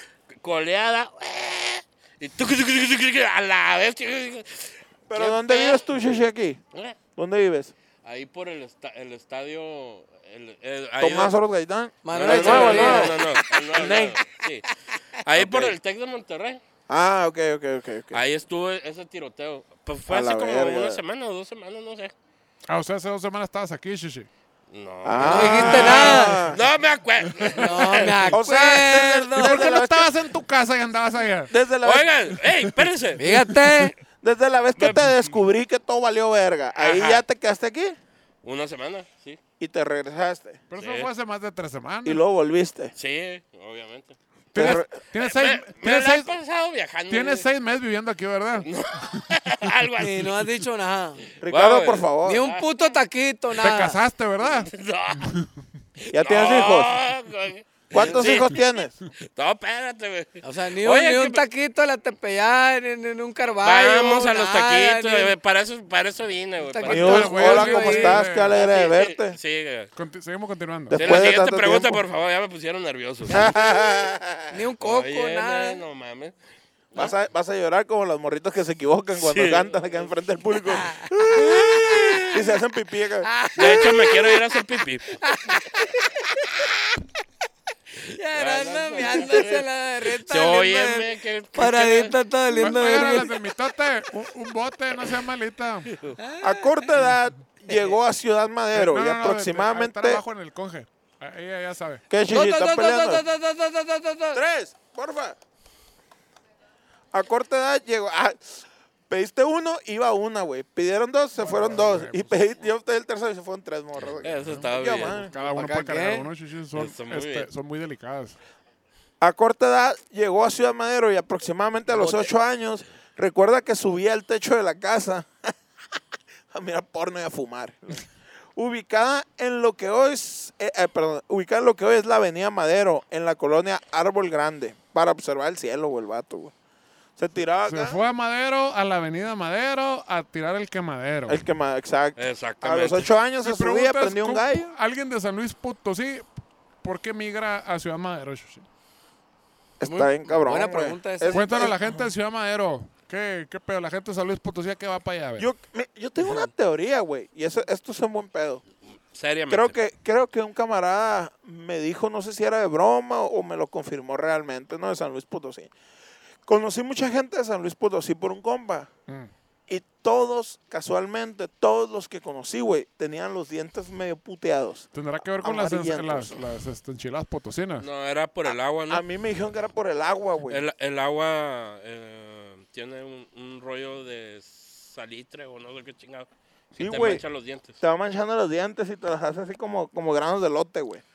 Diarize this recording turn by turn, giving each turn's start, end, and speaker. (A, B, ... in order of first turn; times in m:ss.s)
0:00.3-0:05.9 A
0:05.1-0:06.6 B
0:07.2-0:07.7 B
0:08.0-0:11.4 A
0:11.0-0:14.2 B
0:12.0-0:13.4 C
0:12.1-0:14.7 A
0:15.2-0:16.6 A
0:15.4-0:15.8 B
0:16.9-0:18.2 B
0:18.1-0:22.1 A
0:20.1-0:21.0 B
0:22.7-0:24.3 D
0:24.7-0:28.3 A
0:25.0-0:26.6 B
0:25.2-0:26.4 C
0:25.4-0:26.3 D
0:27.4-0:27.7 D
0:27.6-0:29.6 C
0:28.3-0:30.1 B
0:29.4-0:31.6 D
0:31.5-0:32.1 B
0:31.8-0:33.2 A
0:32.5-0:33.9 D
0:33.2-0:34.0 C
0:34.2-0:38.0 B
0:34.8-0:35.1 A
0:36.8-0:37.2 A
0:38.4-0:39.4 A
0:39.6-0:40.6 B
0:40.7-0:42.2 D
0:40.8-0:41.1 A
0:42.0-0:42.9 B
0:43.0-0:47.5 A
0:44.5-0:46.3 D
0:44.6-0:45.0 B
0:47.1-0:49.2 D
0:48.6-0:50.4 A
0:50.0-0:51.2 C
0:51.4-0:52.4 B
0:51.4-0:53.0 A
0:52.2-0:54.0 C
0:53.6-0:54.7 D
0:54.4-0:55.4 A
0:55.2-0:55.5 D
0:56.0-0:58.6 A
0:56.1-0:57.0 B
0:57.9-0:59.0 B
0:59.2-1:01.4 A
1:00.4-1:05.3 C
1:03.6-1:07.8 A
1:06.6-1:08.3 C
1:06.9-1:09.4 B
1:06.9-1:08.6 D
1:08.5-1:09.9 A
1:10.0-1:11.2 D
1:10.9-1:12.0 B
1:11.0-1:13.5 A
1:13.3-1:14.5 B
1:13.3-1:13.7 C
1:14.5-1:15.8 C
1:14.8-1:16.4 A
1:17.0-1:23.3 B
1:19.2-1:20.1 A
1:20.7-1:22.2 C
1:21.4-1:22.4 A
1:23.2-1:24.6 C
1:23.6-1:25.2 A
1:25.1-1:26.7 C
1:28.0-1:33.3 C
1:28.3-1:32.8 A
1:32.6-1:35.9 D
1:36.2-1:36.8 C
1:36.4-1:40.2 B
1:38.7-1:42.0 D
1:42.1-1:43.2 B
1:42.3-1:44.4 C
1:44.3-1:45.4 B
1:47.1-1:55.3 B
1:51.4-1:52.4 D
1:54.2-1:55.3 A
1:54.4-1:58.4 D
1:55.4-1:56.3 C
1:56.8-1:57.5 A
1:59.2-2:05.5 B
2:02.0-2:02.3 A
2:06.5-2:16.5 B
2:17.2-2:18.1 B
2:17.7-2:21.4 D
2:21.3-2:24.7 B
2:22.2-2:23.1 A
2:23.4-2:26.3 D
2:26.8-2:28.6 D
2:29.8-2:32.0 B
2:29.8-2:31.7 C
2:31.3-2:35.5 D
2:35.4-2:38.6 B
2:39.1-2:39.8 A
2:39.5-2:45.7 B
2:46.5-2:48.9 B
2:49.7-2:54.9 B
2:54.9-2:57.9 D
2:55.4-2:56.4 B
2:57.8-2:59.0 A
2:58.5-3:00.6 B
3:00.5-3:07.8 A
3:06.8-3:07.2 B
3:07.8-3:11.0 B